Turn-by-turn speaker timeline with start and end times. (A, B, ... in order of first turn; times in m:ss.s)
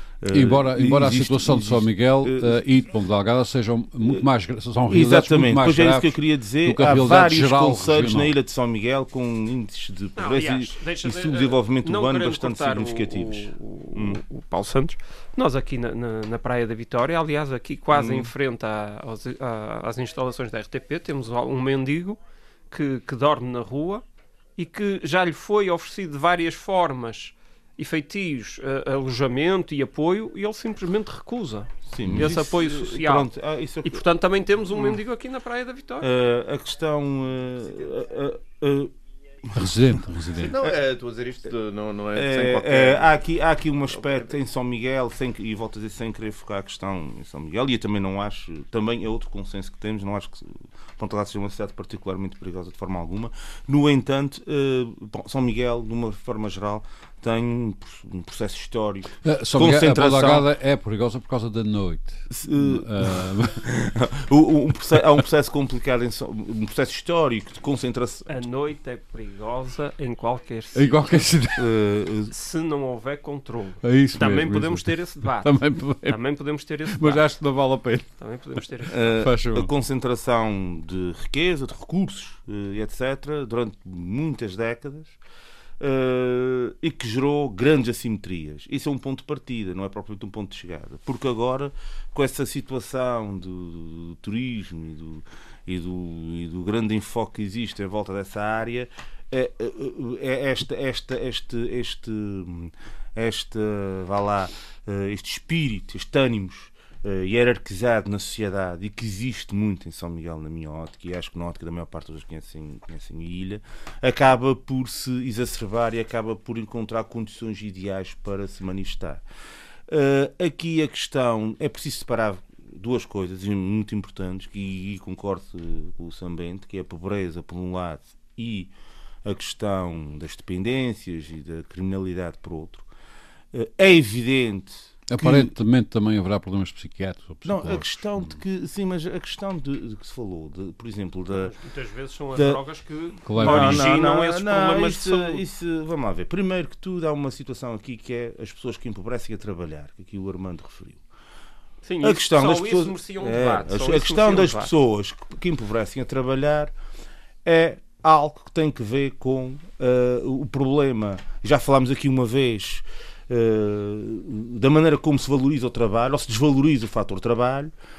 0:00.2-0:02.6 A
0:00.3-0:08.3 B
0:04.9-0:14.2 A
0:10.2-0:22.2 C
0:17.9-0:18.3 A
0:22.7-0:24.0 C
0:24.6-0:33.3 C
0:31.9-0:34.1 A
0:32.0-0:32.3 B
0:33.8-0:36.1 C
0:34.7-0:35.0 A
0:36.0-0:38.9 A
0:39.4-0:39.9 A
0:39.5-0:40.6 B
0:40.4-0:43.2 D
0:42.1-1:00.5 A
0:43.9-0:44.4 D
0:59.2-1:03.7 B
1:02.3-1:08.3 A
1:08.3-1:11.4 C
1:10.7-1:11.7 B
1:11.6-1:12.3 A
1:12.3-1:17.3 C
1:13.8-1:16.2 B
1:16.9-1:18.1 B
1:18.2-1:19.0 C
1:18.6-1:19.7 B
1:18.9-1:25.2 A
1:25.8-1:59.2 A
1:59.9-2:08.7 A
2:09.2-2:12.8 A
2:13.5-2:15.5 A
2:15.1-2:18.4 B
2:17.4-2:21.5 A
2:21.3-2:25.4 C
2:22.3-2:22.6 A
2:23.2-2:23.9 B
2:23.3-2:31.0 A
2:31.8-2:34.7 C
2:32.0-2:36.7 A
2:37.4-2:47.7 A